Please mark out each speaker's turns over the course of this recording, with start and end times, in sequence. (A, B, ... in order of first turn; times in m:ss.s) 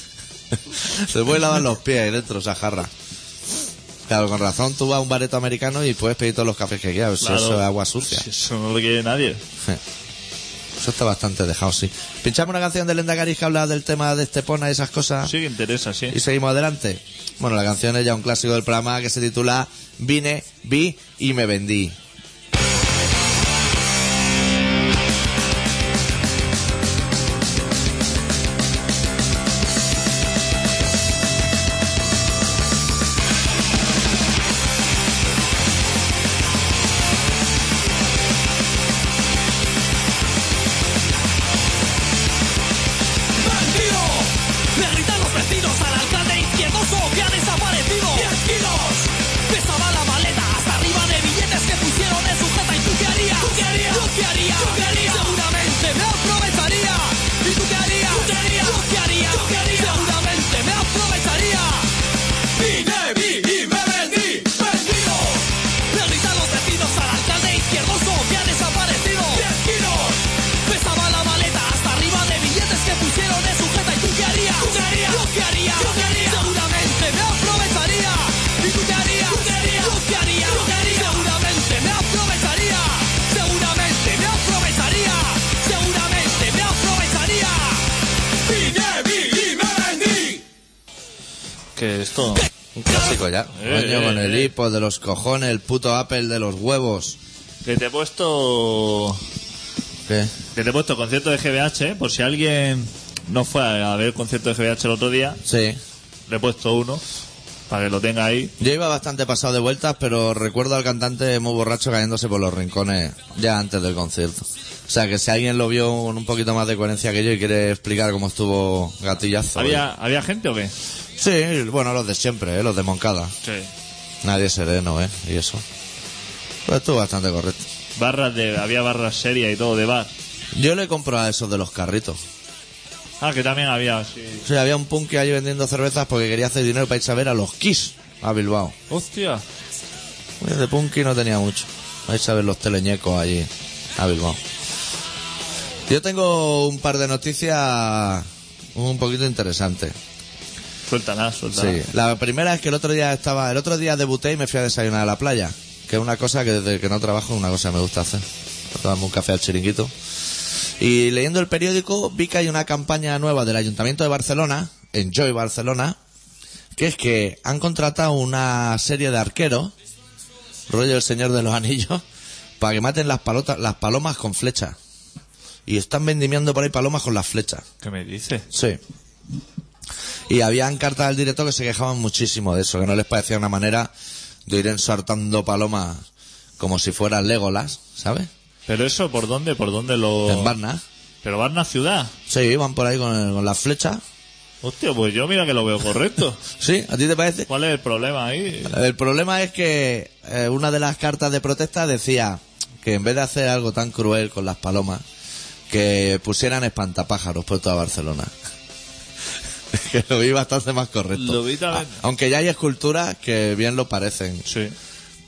0:00.5-0:02.9 A
0:04.1-0:08.2 A
0:07.2-0:09.4 B
0:10.8-0:15.3 A
0:15.2-0:16.2 B
0:16.1-0:22.0 A
0:43.4-1:01.9 C
1:02.6-1:27.8 C
1:28.5-1:30.4 C
1:31.8-1:32.5 B
1:32.8-1:37.2 A
1:33.5-1:34.5 B
1:37.6-1:39.2 B
1:40.1-1:40.3 A
1:40.5-1:45.4 B
1:45.5-1:45.8 A
1:46.3-1:47.0 B
1:47.7-1:48.5 B
1:48.6-1:59.8 A
1:59.5-2:00.7 B
2:01.2-2:03.3 A
2:03.4-2:03.7 B
2:04.2-2:05.6 A
2:06.7-2:07.6 A
2:08.0-2:10.1 B
2:10.5-2:12.2 A
2:13.2-2:14.4 B
2:14.4-2:18.8 A
2:18.9-2:19.4 B
2:20.4-2:24.4 A
2:25.9-2:30.0 A
2:30.9-2:31.8 B
2:31.5-2:39.9 A
2:40.8-2:46.0 A
2:46.8-2:49.7 A
2:50.7-2:52.0 A
2:52.6-2:54.8 A
2:55.7-2:57.6 A
2:57.8-2:58.5 B
2:58.5-2:58.8 A
3:00.3-3:03.9 A
3:04.5-3:06.0 A
3:06.6-3:08.3 A
3:08.7-3:10.5 B
3:10.2-3:10.8 A
3:11.2-3:12.1 B
3:12.3-3:14.0 A
3:14.6-3:16.4 B
3:16.6-3:17.5 A
3:17.5-3:18.8 B
3:18.7-3:25.0 A
3:25.7-3:28.3 A
3:29.7-3:34.5 A
3:31.2-3:32.0 B
3:34.5-3:34.7 B